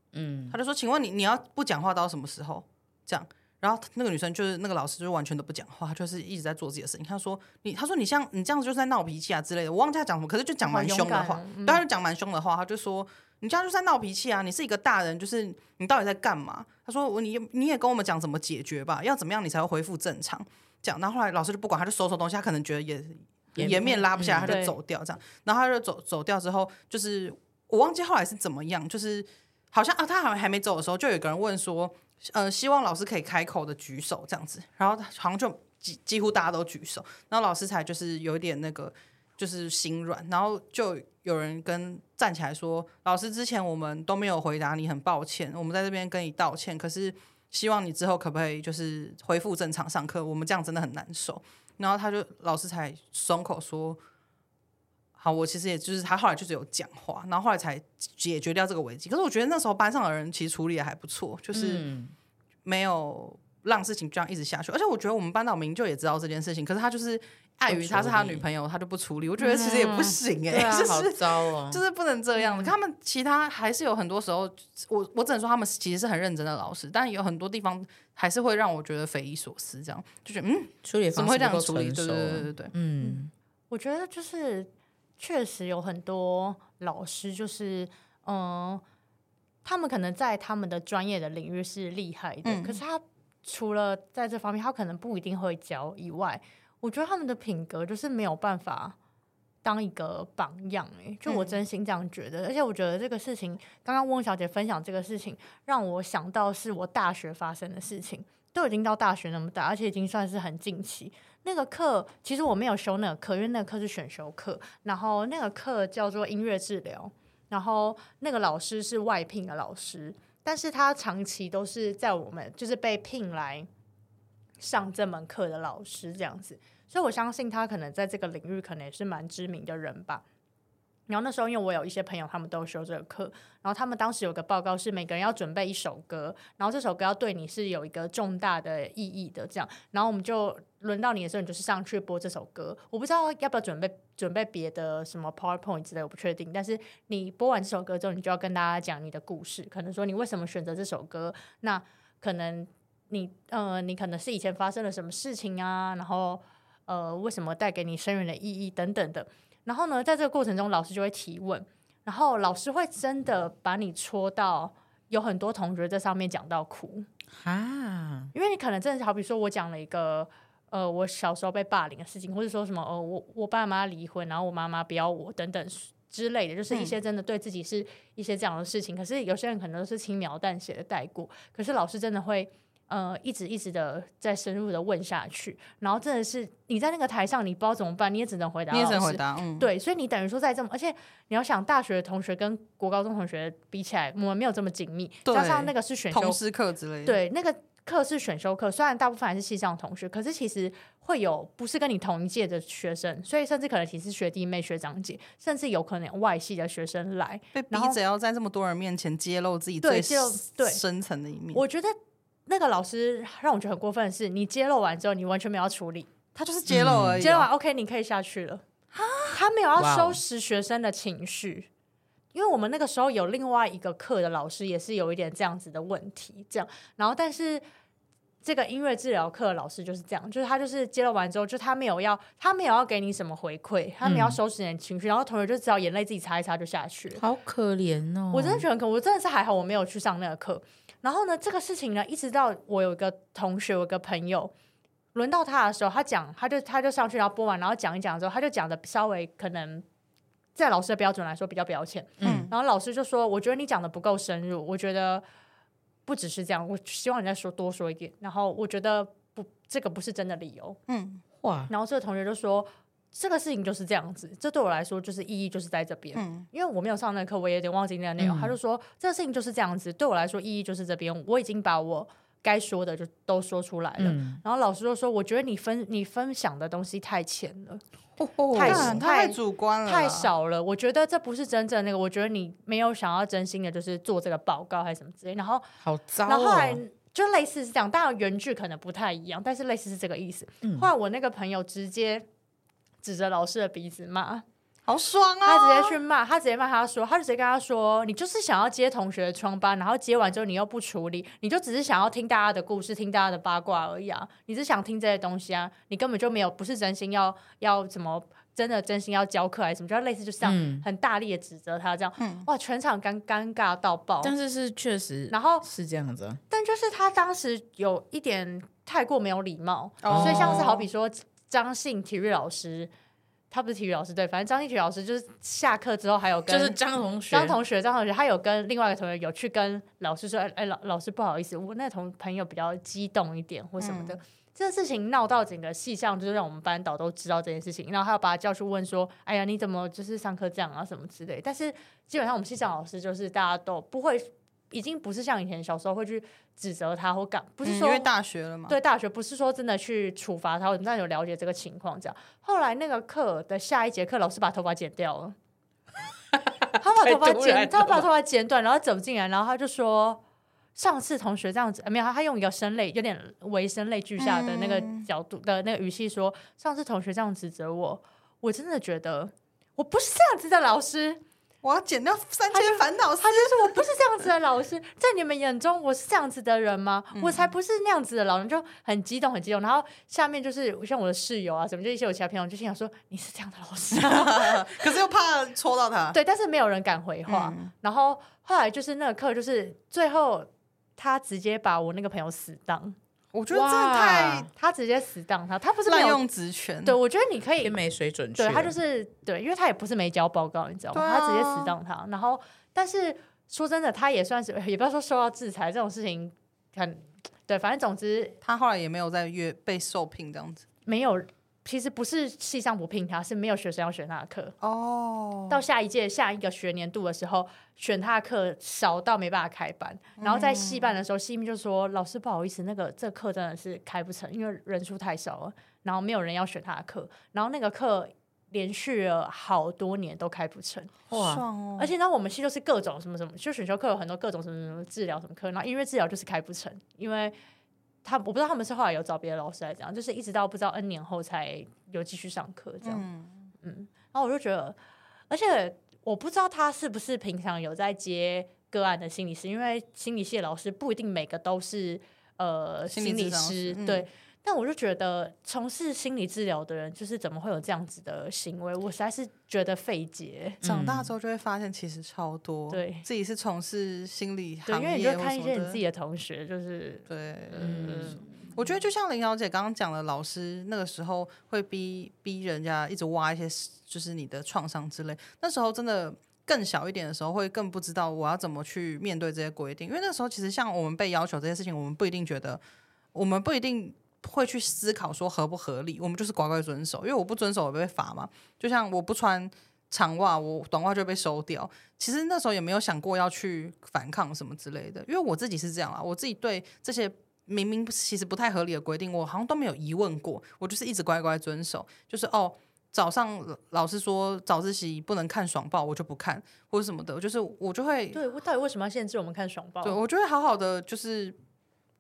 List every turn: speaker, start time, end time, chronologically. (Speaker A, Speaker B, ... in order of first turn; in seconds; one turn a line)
Speaker A: 0.1-0.6
Speaker B: 0.5-54.0
Speaker C: 10.6-11.8
Speaker A: 23.6-24.6
Speaker C: 24.4-24.7
Speaker B: 55.2-61.8
Speaker A: 61.5-62.1
Speaker B: 62.6-82.7
Speaker A: 67.7-68.4
Speaker A: 69.5-71.8
Speaker A: 80.8-83.3
Speaker C: 83.0-88.8
Speaker C: 89.6-99.0
Speaker B: 92.4-92.8
Speaker C: 99.6-123.7
Speaker B: 101.2-101.6
Speaker C: 124.6-130.2
Speaker C: 131.1-167.1
Speaker A: 167.3-168.3
Speaker C: 168.3-196.4
Speaker B: 176.7-176.9
Speaker B: 188.7-189.7
Speaker B: 195.2-197.2
Speaker C: 197.0-208.0
Speaker B: 207.5-211.6
Speaker C: 209.8-210.8
Speaker C: 211.5-211.9
Speaker C: 212.5-216.1
Speaker B: 216.3-217.5
Speaker A: 216.7-217.2
Speaker C: 217.2-218.6
Speaker B: 218.9-219.4
Speaker C: 219.3-221.7
Speaker A: 219.8-220.2
Speaker C: 222.3-227.6
Speaker C: 228.4-237.2
Speaker A: 234.0-234.4
Speaker A: 237.2-238.6
Speaker C: 238.3-244.5
Speaker C: 245.1-249.8
Speaker C: 250.6-255.2
Speaker A: 252.2-252.5
Speaker B: 252.2-252.5
Speaker C: 256.1-260.8
Speaker B: 260.9-261.2
Speaker A: 261.4-261.7
Speaker C: 261.7-277.8
Speaker B: 266.1-266.4
Speaker A: 268.2-268.5
Speaker A: 274.0-274.4
Speaker A: 278.2-279.0
Speaker C: 278.5-285.6
Speaker B: 278.6-280.3
Speaker A: 285.8-286.8
Speaker C: 286.2-292.2
Speaker A: 290.6-290.9
Speaker C: 293.0-294.4
Speaker B: 294.9-295.9
Speaker C: 295.4-314.3
Speaker A: 310.4-310.9
Speaker B: 312.2-312.5
Speaker A: 314.2-316.4
Speaker C: 315.3-315.7
Speaker C: 316.5-322.9
Speaker B: 320.0-320.8
Speaker A: 320.1-320.6
Speaker C: 323.5-326.8
Speaker A: 326.5-327.6
Speaker C: 327.3-348.1
Speaker B: 333.8-334.2
Speaker B: 347.6-348.8
Speaker C: 348.7-355.4
Speaker A: 356.3-358.1
Speaker C: 356.8-360.2
Speaker C: 360.8-371.2
Speaker B: 364.2-365.1
Speaker B: 371.6-373.9
Speaker C: 372.5-384.8
Speaker B: 377.1-377.5
Speaker B: 383.9-386.2
Speaker C: 386.1-392.9
Speaker B: 387.3-387.7
Speaker B: 393.3-394.5
Speaker A: 393.5-394.5
Speaker C: 394.5-396.2
Speaker B: 395.8-397.0
Speaker C: 396.8-397.8
Speaker A: 397.6-398.8
Speaker C: 398.4-408.4
Speaker B: 400.9-401.8
Speaker B: 408.4-410.6
Speaker C: 410.9-414.5
Speaker B: 414.6-415.6
Speaker C: 415.5-430.9
Speaker B: 420.2-420.9
Speaker A: 431.1-431.4
Speaker B: 431.1-431.9
Speaker C: 431.8-437.3
Speaker C: 438.0-443.1
Speaker B: 442.8-443.4
Speaker C: 443.6-444.8
Speaker C: 445.3-460.6
Speaker B: 452.9-454.1
Speaker A: 460.6-461.1
Speaker B: 460.6-465.8
Speaker C: 462.7-463.0
Speaker C: 464.6-468.2
Speaker B: 467.1-482.6
Speaker A: 467.6-468.4
Speaker B: 483.1-508.2
Speaker C: 508.1-510.0
Speaker B: 509.8-511.4